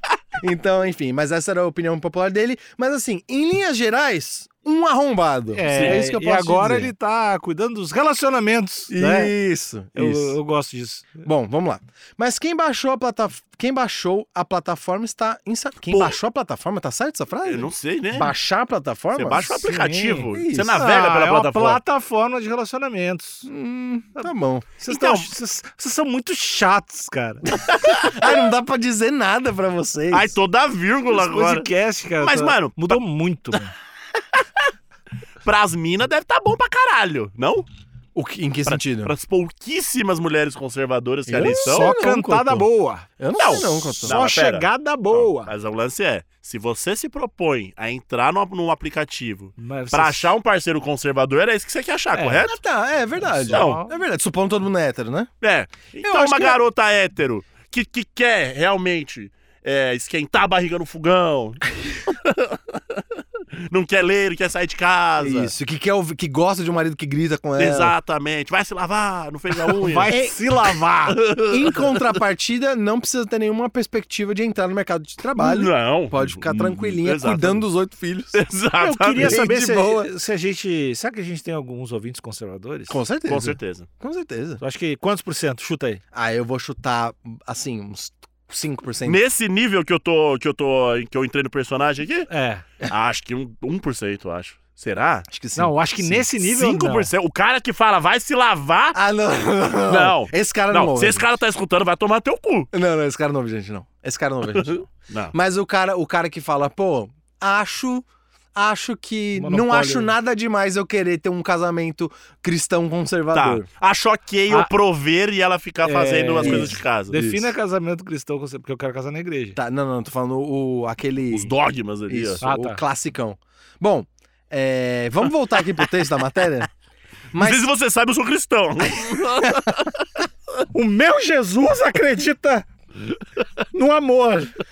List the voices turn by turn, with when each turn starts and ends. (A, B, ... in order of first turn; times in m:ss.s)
0:00.4-0:06.9 A
0:05.5-0:09.3 B
0:05.7-0:06.0 C
0:08.9-0:10.4 A
0:10.0-0:11.3 B
0:11.2-0:19.7 A
0:15.9-0:16.2 C
0:17.4-0:18.3 C
0:19.2-0:21.8 C
0:19.6-0:23.5 B
0:20.3-0:20.8 A
0:23.4-0:24.8 A
0:24.8-0:27.5 B
0:24.9-0:25.3 C
0:27.7-0:28.1 C
0:27.9-0:30.4 A
0:30.1-0:31.7 C
0:31.1-0:33.7 B
0:32.2-0:33.0 C
0:35.4-0:37.7 C
0:38.2-0:39.1 A
0:38.7-0:42.0 C
0:41.3-0:42.7 A
0:41.4-0:45.5 B
0:43.2-0:44.2 A
0:43.4-0:52.6 C
0:49.6-0:50.3 B
0:52.1-0:52.4 B
0:52.4-0:55.3 A
0:53.3-0:54.0 B
0:53.5-0:53.8 C
0:55.4-1:05.5 C
0:56.0-0:56.6 A
1:05.2-1:07.9 A
1:07.6-1:10.2 C
1:09.8-1:11.2 B
1:10.1-1:10.3 A
1:11.1-1:12.0 C
1:11.4-1:18.4 A
1:15.4-1:17.6 C
1:18.3-1:19.4 C
1:18.8-1:23.0 B
1:19.2-1:20.1 A
1:22.9-1:24.6 A
1:23.3-1:23.9 C
1:24.6-1:26.0 B
1:26.1-1:29.2 A
1:29.0-1:32.3 C
1:32.3-1:32.6 B
1:32.9-1:35.3 C
1:35.3-1:36.3 A
1:35.6-1:37.1 B
1:36.4-1:39.0 C
1:38.9-1:41.3 A
1:39.9-1:42.7 C
1:42.7-1:53.7 A
1:44.5-1:45.3 C
1:49.4-1:50.1 B
1:53.3-1:57.4 C
1:55.8-1:59.6 B
1:56.4-1:57.2 A
1:59.6-2:01.5 A
2:01.3-2:02.4 C
2:02.1-2:06.7 A
2:02.4-2:02.8 B
2:07.3-2:07.6 A
2:07.4-2:10.0 C
2:08.9-2:09.7 A
2:10.7-2:12.7 B
2:13.7-2:14.6 B